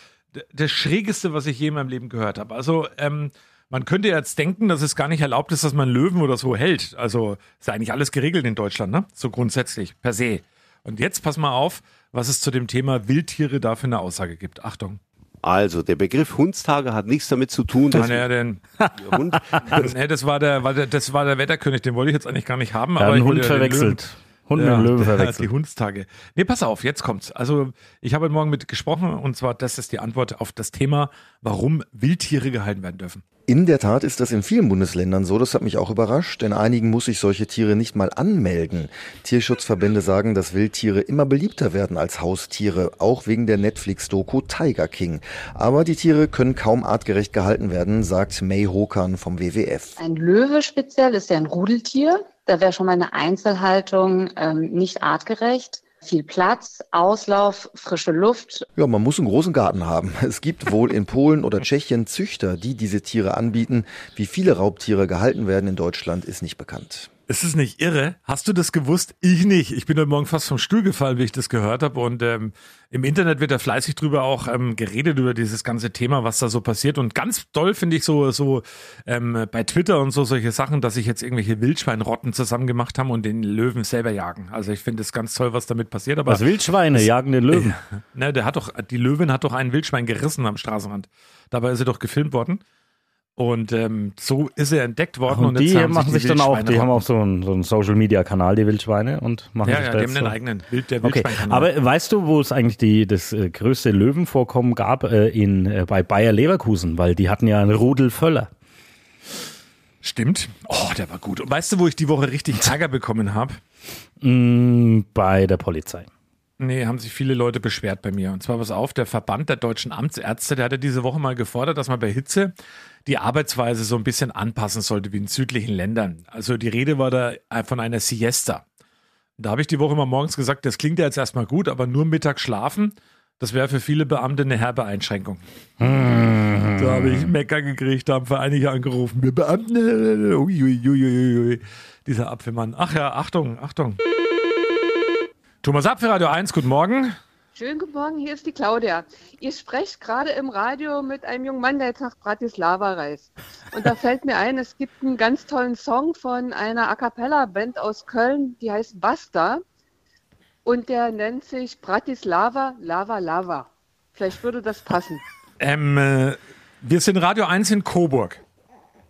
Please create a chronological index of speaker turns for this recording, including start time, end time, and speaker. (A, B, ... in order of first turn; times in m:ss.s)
0:00.3-0:15.0 A
0:15.4-0:18.2 B
0:17.9-0:18.6 A
0:19.0-0:19.8 B
0:19.6-0:24.0 A
0:23.0-0:25.5 C
0:24.6-0:33.2 A
0:33.5-0:49.9 D
0:50.0-0:58.6 E
0:58.8-1:07.1 D
1:07.3-1:32.6 A
1:26.2-1:27.8 C
1:33.4-1:37.0 A
1:35.3-1:40.4 C
1:39.6-1:41.7 A
1:41.0-1:48.5 C
1:50.0-1:53.6 A
1:54.2-1:56.1 C
1:56.6-2:02.5 A
2:03.0-2:08.6 A
2:09.4-2:15.4 A
2:15.8-2:17.3 C
2:16.8-2:24.0 A
2:25.6-2:27.2 A
2:27.5-2:39.6 F
2:40.6-2:45.2 F
2:45.6-2:48.4 A